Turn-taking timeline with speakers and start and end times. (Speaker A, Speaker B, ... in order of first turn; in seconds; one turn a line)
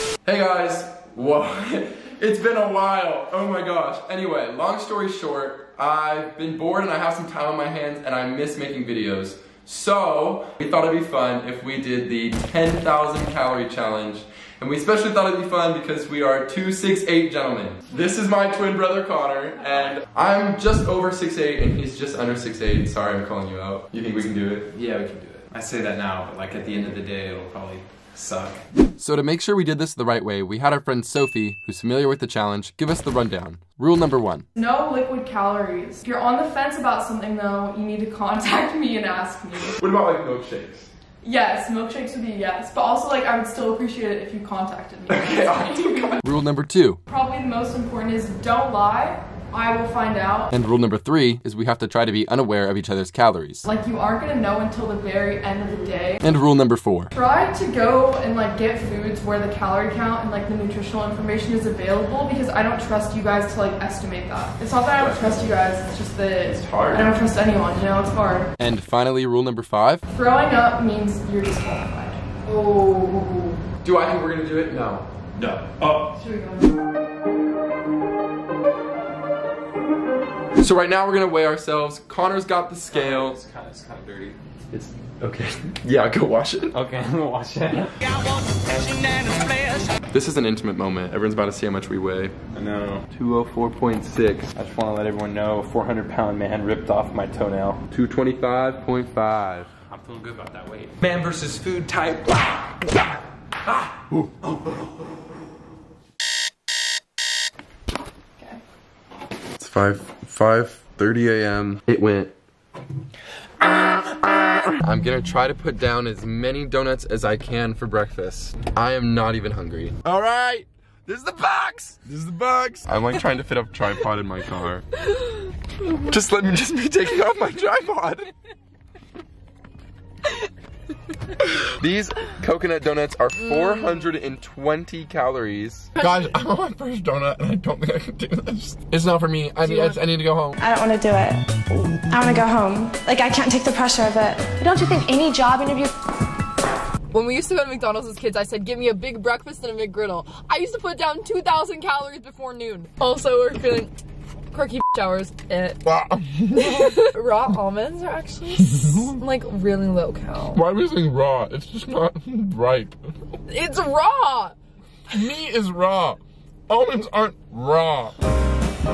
Speaker A: 0.2-24.8
Speaker B: 24.7-28.6
Speaker A: 29.0-34.5
Speaker C: 34.6-39.8
Speaker A: 39.8-40.9
Speaker C: 41.2-46.2
Speaker A: 45.1-47.0
Speaker C: 47.1-50.5
Speaker A: 50.5-53.7
Speaker C: 53.6-56.2
Speaker A: 56.2-57.1
Speaker C: 57.1-68.5
Speaker A: 65.0-65.5
Speaker A: 66.4-67.1
Speaker A: 68.6-70.0
Speaker C: 70.1-72.2
Speaker A: 73.8-75.1
Speaker B: 75.4-76.2
Speaker D: 76.2-76.7
Speaker A: 80.6-83.4
Speaker B: 82.9-84.4
Speaker A: 84.7-86.8
Speaker B: 86.7-88.0
Speaker B: 88.7-89.6
Speaker A: 90.1-92.4
Speaker B: 92.5-93.1
Speaker A: 93.1-94.5
Speaker B: 94.5-97.8
Speaker A: 97.9-99.7
Speaker B: 99.9-102.7
Speaker B: 103.7-104.8
Speaker A: 109.6-112.3
Speaker A: 113.6-124.8
Speaker A: 125.9-128.3
Speaker A: 131.5-140.6
Speaker D: 139.6-140.0
Speaker E: 140.7-141.4
Speaker E: 142.1-145.9
Speaker D: 147.1-153.9
Speaker D: 154.5-155.8
Speaker A: 155.8-157.0
Speaker D: 156.5-160.6
Speaker A: 158.6-159.1
Speaker A: 160.5-162.9
Speaker D: 163.5-164.6
Speaker A: 165.1-168.2